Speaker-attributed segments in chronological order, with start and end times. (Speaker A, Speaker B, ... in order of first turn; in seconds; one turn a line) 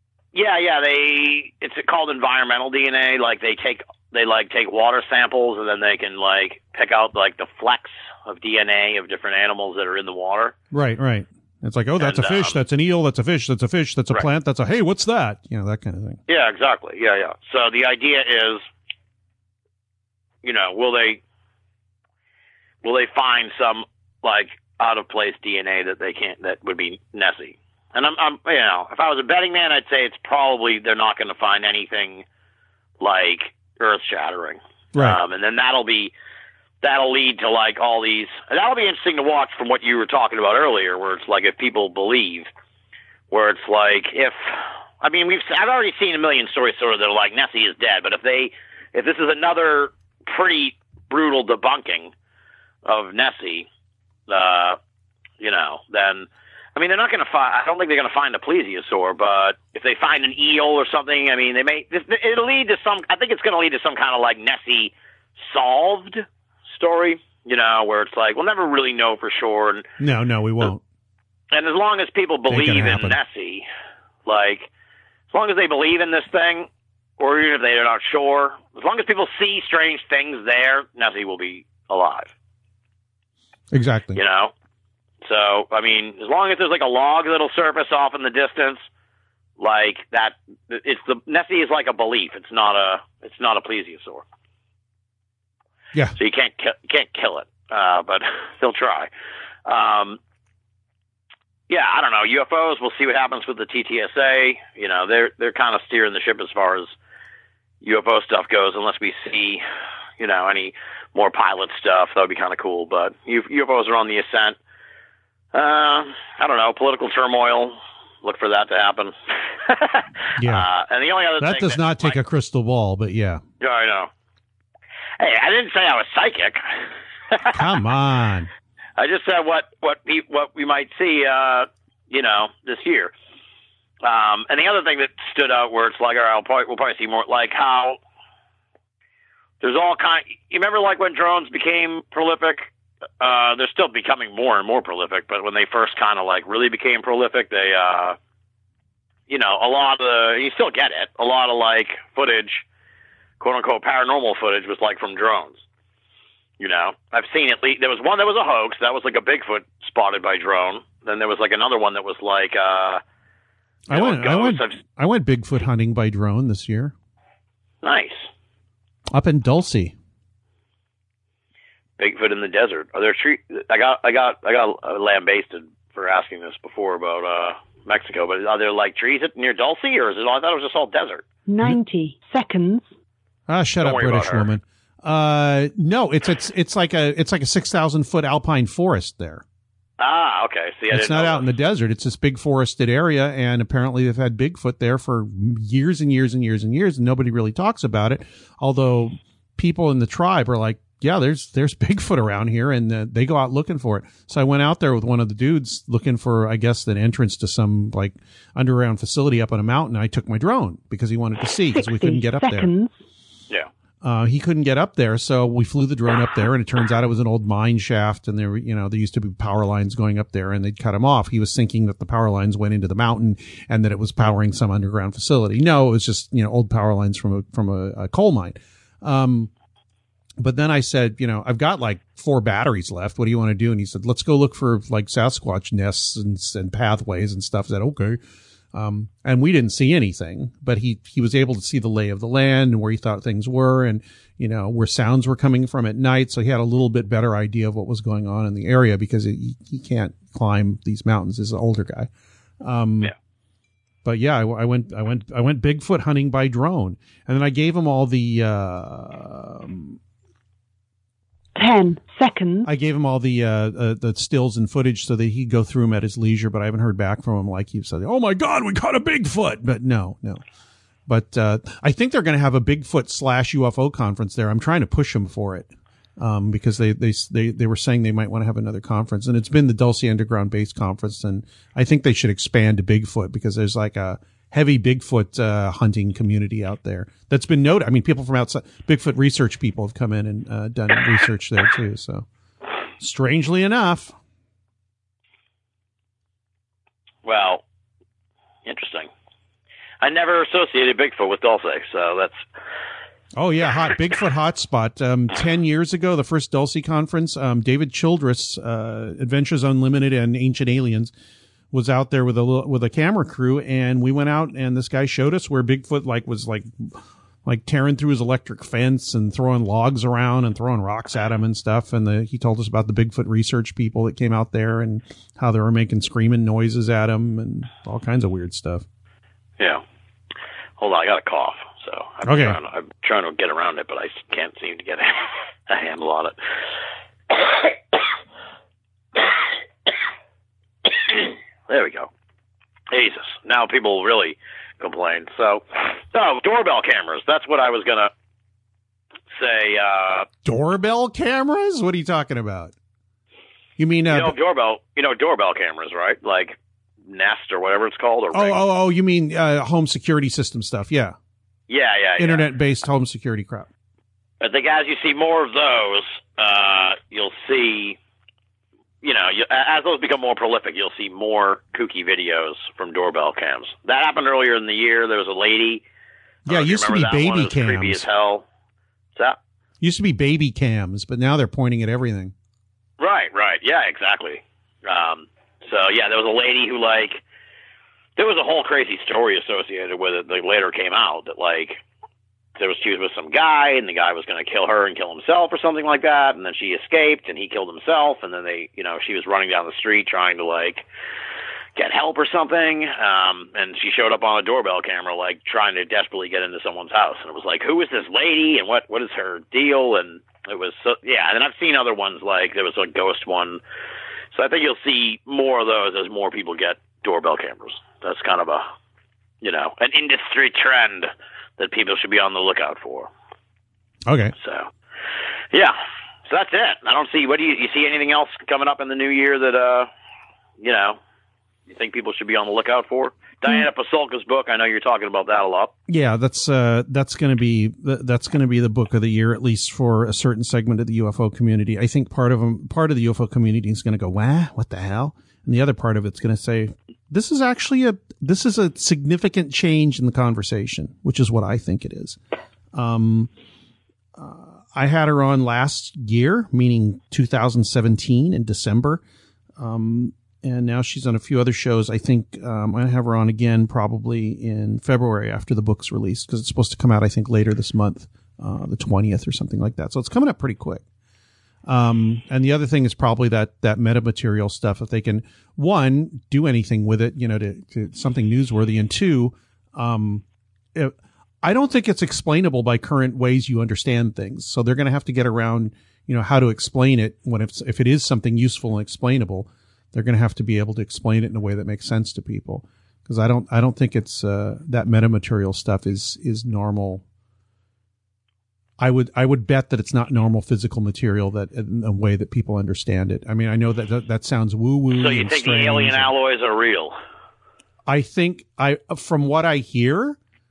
Speaker A: 0.3-10.5
Speaker B: 10.7-16.2
Speaker A: 12.0-12.6
Speaker A: 16.3-18.6
Speaker A: 20.4-21.2
Speaker A: 22.8-32.2
Speaker A: 33.0-36.1
Speaker B: 34.9-35.2
Speaker A: 36.8-42.5
Speaker A: 43.3-52.1
Speaker A: 52.8-53.7
Speaker A: 54.3-54.8
Speaker A: 55.4-69.8
Speaker B: 70.0-70.8
Speaker A: 71.5-73.7
Speaker B: 72.5-73.2
Speaker A: 74.2-74.7
Speaker A: 75.3-76.7
Speaker A: 77.2-82.3
Speaker B: 83.7-84.2
Speaker A: 84.1-84.5
Speaker A: 85.2-88.8
Speaker A: 89.6-94.2
Speaker A: 96.2-99.1
Speaker A: 99.7-100.2
Speaker A: 101.7-106.9
Speaker A: 107.8-109.6
Speaker A: 110.2-114.6
Speaker A: 115.5-122.2
Speaker B: 120.4-120.7
Speaker B: 121.4-123.4
Speaker A: 123.6-124.1
Speaker A: 125.2-126.6
Speaker B: 127.5-128.5
Speaker A: 129.0-133.1
Speaker A: 134.0-138.0
Speaker A: 139.6-142.7
Speaker A: 143.2-148.2
Speaker A: 149.3-152.6
Speaker A: 153.4-155.6
Speaker A: 156.6-163.0
Speaker B: 163.9-166.9
Speaker A: 163.9-164.8
Speaker A: 167.8-168.3
Speaker B: 169.1-169.9
Speaker A: 172.0-181.2
Speaker C: 181.5-182.8
Speaker B: 183.5-189.4
Speaker A: 183.8-184.5
Speaker A: 190.0-191.4
Speaker B: 190.9-212.7
Speaker C: 211.7-212.9
Speaker B: 214.0-229.5
Speaker B: 230.4-238.2
Speaker B: 238.7-252.1
Speaker B: 252.6-253.1
Speaker B: 254.0-260.0
Speaker C: 261.6-262.7
Speaker B: 262.6-270.4
Speaker B: 271.1-292.2
Speaker B: 293.0-294.1
Speaker A: 297.2-297.6
Speaker A: 298.6-299.1
Speaker A: 300.0-302.4
Speaker B: 303.4-311.1
Speaker B: 311.7-328.8
Speaker A: 330.8-335.1
Speaker B: 332.2-332.6
Speaker A: 335.7-336.4
Speaker A: 341.7-342.1
Speaker A: 342.9-348.1
Speaker A: 349.3-350.3
Speaker B: 350.4-352.7
Speaker B: 353.8-354.3
Speaker A: 354.1-358.6
Speaker B: 358.3-361.1
Speaker A: 361.7-362.5
Speaker B: 362.2-363.7
Speaker A: 364.4-368.0
Speaker A: 369.0-375.8
Speaker B: 376.4-378.0
Speaker A: 376.5-378.4
Speaker B: 379.8-382.3
Speaker A: 383.0-387.2
Speaker A: 388.2-391.8
Speaker A: 392.6-400.8
Speaker A: 401.8-413.6
Speaker A: 414.3-418.6
Speaker A: 419.4-423.1
Speaker B: 424.1-424.3
Speaker A: 424.4-424.7
Speaker A: 426.3-429.9
Speaker A: 430.6-431.0
Speaker A: 431.7-435.7
Speaker B: 435.9-452.2
Speaker B: 452.7-453.3
Speaker B: 454.1-459.0
Speaker B: 459.6-470.8
Speaker B: 471.6-497.0
Speaker B: 498.8-506.1
Speaker A: 504.9-506.9
Speaker B: 507.9-510.2